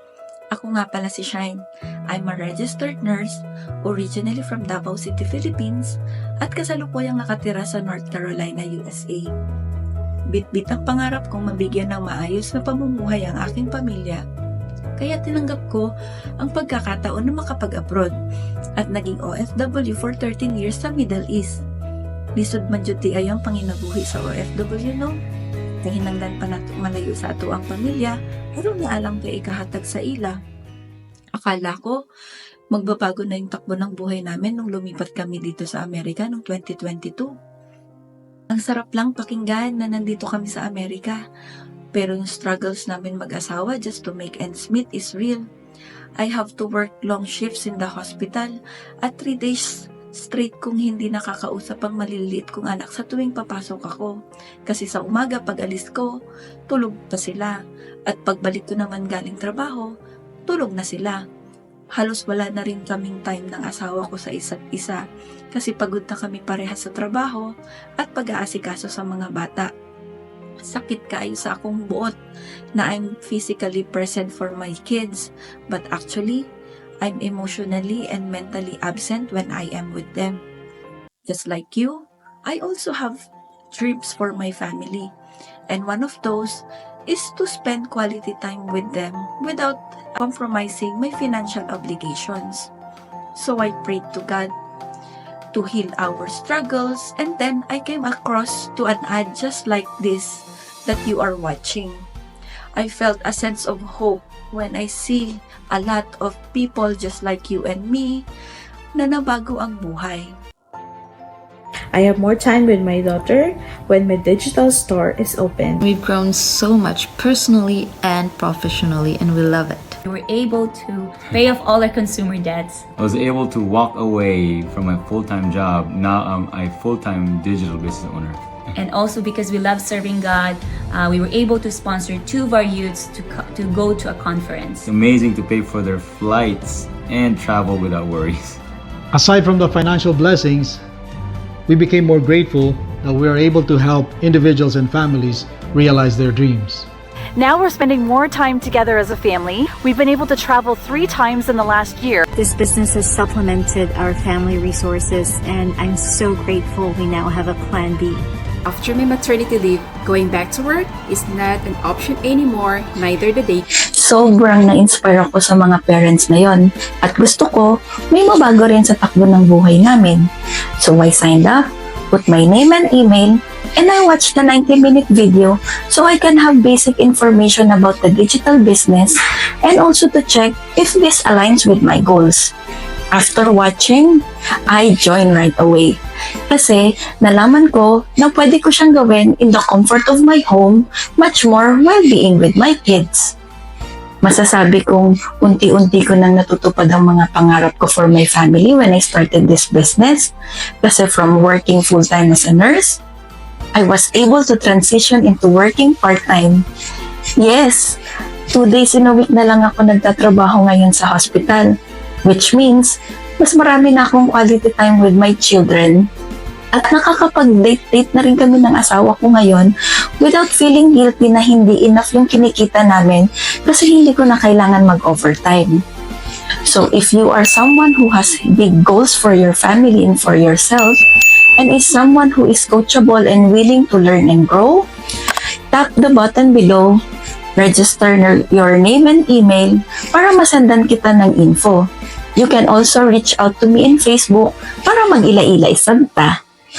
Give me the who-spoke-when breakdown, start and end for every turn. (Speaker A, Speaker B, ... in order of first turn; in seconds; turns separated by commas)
Speaker A: 0.5-9.3, Speaker A: 10.3-14.2, Speaker A: 15.0-15.9, Speaker A: 16.4-18.1, Speaker A: 18.8-21.6, Speaker A: 22.4-25.2, Speaker A: 25.8-30.4, Speaker A: 31.4-32.0, Speaker A: 32.7-37.3, Speaker A: 38.5-41.2, Speaker A: 41.9-45.4, Speaker A: 46.2-54.1, Speaker A: 54.7-56.1, Speaker A: 56.7-57.5, Speaker A: 58.1-59.9, Speaker A: 60.5-61.2, Speaker A: 62.0-65.0, Speaker A: 65.5-67.5, Speaker A: 68.0-69.7, Speaker A: 70.7-72.1, Speaker A: 72.8-76.4, Speaker A: 77.0-80.4, Speaker A: 81.3-85.1, Speaker A: 85.7-92.7, Speaker A: 93.3-94.5, Speaker A: 95.5-102.0, Speaker A: 102.8-108.2, Speaker A: 108.9-110.3, Speaker B: 111.9-115.8, Speaker C: 116.0-120.0, Speaker D: 120.0-122.8, Speaker E: 123.0-128.4, Speaker D: 128.8-134.9, Speaker E: 134.8-138.6, Speaker F: 139.1-140.8, Speaker F: 141.7-146.9, Speaker G: 147.3-152.3, Speaker H: 152.4-158.1, Speaker I: 158.6-163.6, Speaker A: 163.9-170.2, Speaker A: 170.8-182.5, Speaker A: 183.1-186.0, Speaker A: 186.5-193.3, Speaker A: 194.2-200.3, Speaker A: 200.8-203.0, Speaker A: 203.7-206.6, Speaker A: 207.4-208.0, Speaker A: 208.5-211.7, Speaker A: 212.2-216.0, Speaker A: 216.7-225.8, Speaker A: 226.7-231.0, Speaker A: 231.6-234.9, Speaker A: 235.7-237.0, Speaker A: 237.6-241.8, Speaker A: 242.4-246.3